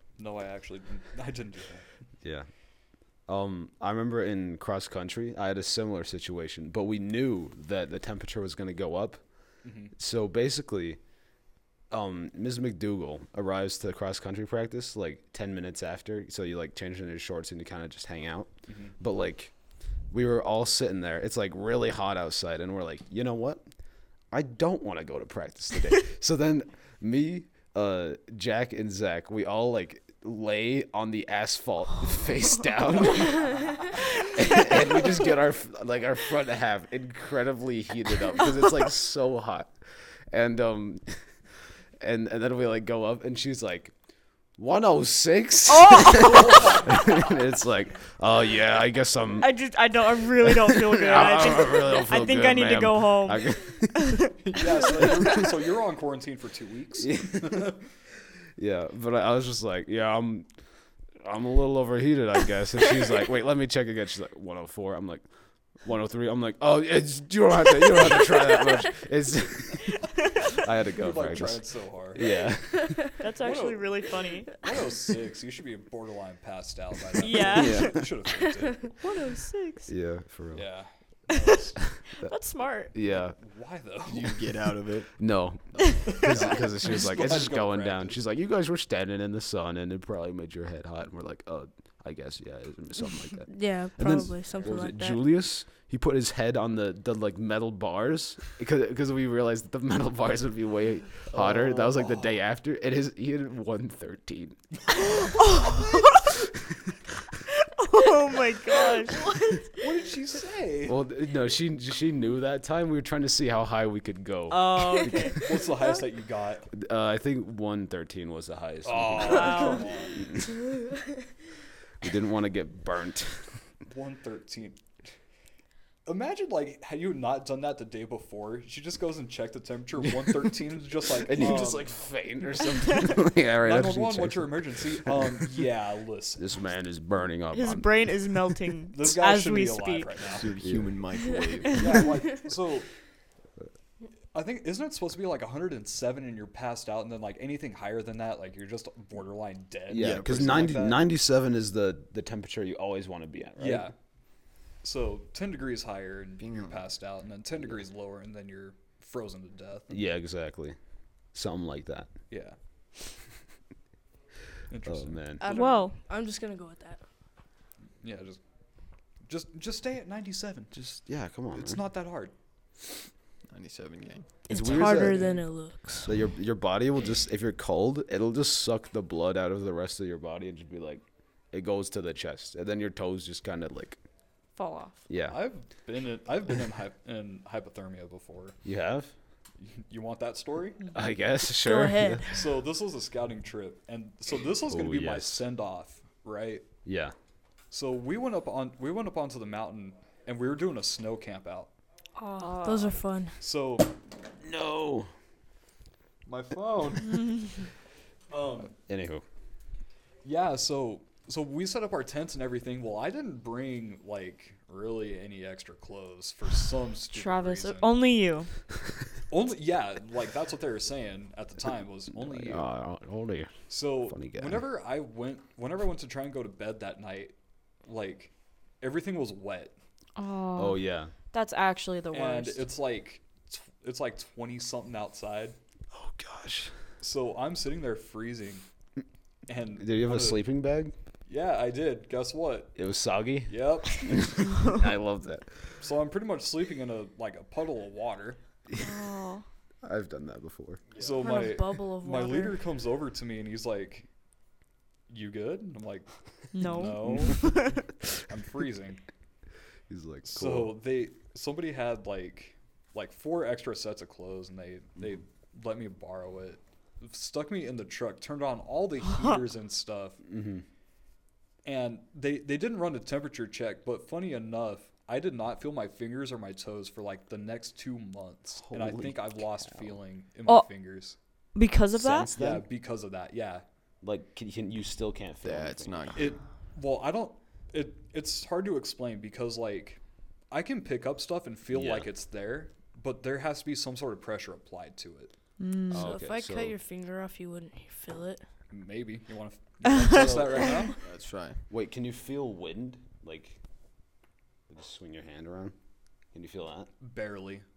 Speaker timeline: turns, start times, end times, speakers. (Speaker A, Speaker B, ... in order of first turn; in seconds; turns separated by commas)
Speaker A: 0.2-1.9, Speaker B: 2.2-2.5, Speaker B: 3.3-9.2, Speaker A: 9.6-9.9, Speaker B: 10.0-11.0, Speaker B: 11.9-19.5, Speaker A: 18.7-19.0, Speaker B: 20.1-23.6, Speaker B: 24.3-39.7, Speaker B: 40.3-41.2, Speaker B: 42.0-43.9, Speaker B: 44.6-49.5, Speaker C: 45.7-46.8, Speaker A: 46.4-47.1, Speaker C: 49.4-54.3, Speaker B: 50.4-54.3, Speaker A: 54.4-57.8, Speaker B: 55.0-55.5, Speaker B: 57.0-57.7, Speaker B: 58.6-60.5, Speaker B: 61.2-65.2, Speaker B: 65.8-73.1, Speaker A: 71.0-72.2, Speaker D: 72.8-73.1, Speaker C: 73.2-74.5, Speaker A: 73.4-78.9, Speaker C: 77.2-78.0, Speaker B: 77.4-78.1, Speaker C: 79.0-79.9, Speaker B: 79.9-80.7, Speaker A: 80.5-82.0, Speaker B: 82.0-82.3, Speaker C: 82.2-82.9, Speaker B: 82.9-83.4, Speaker A: 83.3-84.4, Speaker E: 84.1-86.7, Speaker B: 85.2-104.6, Speaker A: 86.2-88.2, Speaker D: 93.5-95.2, Speaker E: 101.4-102.1, Speaker C: 105.0-106.3, Speaker C: 107.5-109.2, Speaker A: 109.7-111.0, Speaker B: 110.9-115.6, Speaker C: 114.5-115.4, Speaker A: 115.4-116.7, Speaker B: 116.7-120.5, Speaker A: 118.8-120.2, Speaker C: 119.3-119.8, Speaker B: 122.0-123.6, Speaker A: 123.9-124.8, Speaker A: 126.1-131.9, Speaker B: 131.1-135.1, Speaker A: 133.6-136.6, Speaker B: 136.4-137.9, Speaker C: 137.5-140.1, Speaker A: 138.9-140.5, Speaker E: 140.3-142.1, Speaker B: 140.6-141.0, Speaker A: 141.7-142.9, Speaker A: 144.3-151.1, Speaker B: 149.9-153.9, Speaker E: 149.9-150.6, Speaker A: 153.6-153.9, Speaker A: 154.8-160.0, Speaker E: 156.4-156.8, Speaker B: 159.9-160.8, Speaker B: 161.3-162.1, Speaker A: 162.3-162.6, Speaker A: 164.7-165.2, Speaker B: 164.8-165.4, Speaker D: 165.4-167.1, Speaker C: 165.4-166.0, Speaker A: 168.0-168.4, Speaker A: 169.3-170.7, Speaker B: 170.8-171.8, Speaker A: 171.5-172.3, Speaker E: 173.5-174.4, Speaker D: 174.5-176.1, Speaker B: 174.5-175.3, Speaker A: 174.7-175.4, Speaker B: 176.1-184.0, Speaker C: 184.6-185.0, Speaker B: 185.1-185.4, Speaker A: 185.3-188.6, Speaker B: 188.7-189.1, Speaker A: 189.7-190.9, Speaker B: 190.9-192.2, Speaker D: 191.6-192.4, Speaker A: 192.3-196.7, Speaker B: 194.7-195.4, Speaker B: 196.8-197.1, Speaker A: 197.7-201.7, Speaker D: 202.2-203.3, Speaker C: 202.3-203.0, Speaker A: 203.4-203.9, Speaker B: 204.4-205.1, Speaker A: 206.3-207.7, Speaker A: 208.3-208.8, Speaker B: 208.9-209.2, Speaker A: 210.2-217.9, Speaker C: 217.1-218.5, Speaker A: 219.3-222.7, Speaker B: 222.2-224.6, Speaker A: 223.7-227.3, Speaker A: 227.9-229.7, Speaker C: 230.2-232.6, Speaker B: 230.6-231.1, Speaker A: 232.1-235.6, Speaker B: 235.9-236.8, Speaker A: 237.0-238.6, Speaker A: 239.5-240.4, Speaker B: 239.8-240.9, Speaker A: 241.3-242.8, Speaker B: 242.8-245.7, Speaker A: 243.5-244.4, Speaker A: 245.8-248.4, Speaker C: 248.8-249.4, Speaker B: 249.8-250.8, Speaker E: 250.9-251.5, Speaker A: 251.0-254.1, Speaker D: 251.2-252.6, Speaker A: 255.1-257.5, Speaker C: 256.5-257.8, Speaker A: 258.2-259.0, Speaker B: 259.9-260.8, Speaker A: 260.2-270.2, Speaker B: 270.3-270.6, Speaker A: 271.6-281.2, Speaker B: 278.6-279.9, Speaker C: 281.6-282.3, Speaker B: 281.9-282.6, Speaker A: 282.3-283.6, Speaker B: 284.0-286.3, Speaker E: 285.4-286.3, Speaker A: 286.1-290.0, Speaker A: 290.5-295.3, Speaker B: 291.7-292.1, Speaker C: 295.6-296.1, Speaker B: 295.9-296.8, Speaker D: 295.9-298.4, Speaker A: 298.7-301.0, Speaker C: 299.9-300.4, Speaker E: 301.0-301.6, Speaker B: 301.7-303.6, Speaker B: 304.7-305.7, Speaker B: 306.3-306.9, Speaker A: 307.0-307.6